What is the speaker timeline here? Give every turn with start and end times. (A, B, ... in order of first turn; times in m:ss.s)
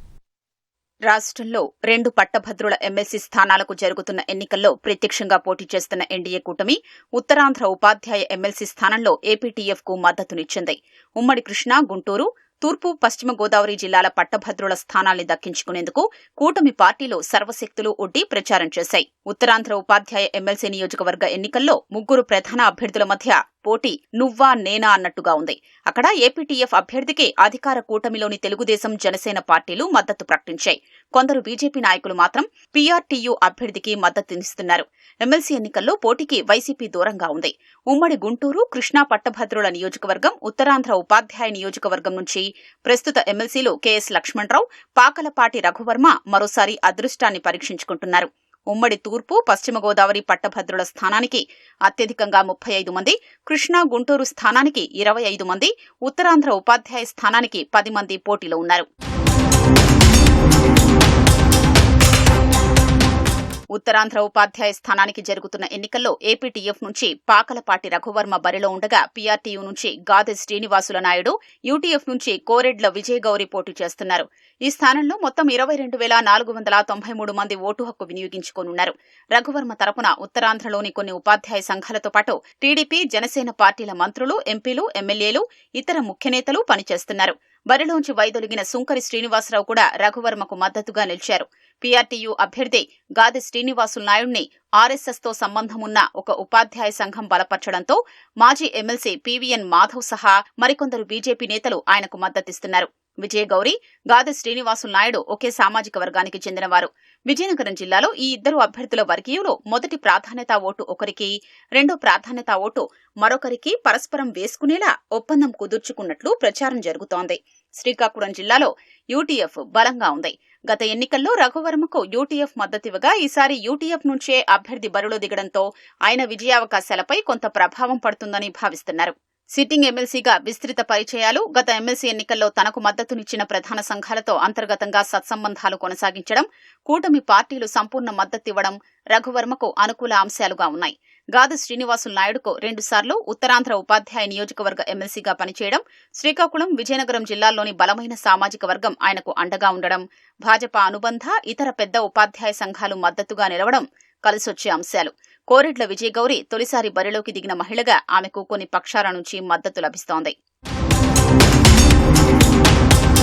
0:01.1-0:58.8 A
1:03.7-2:40.3 A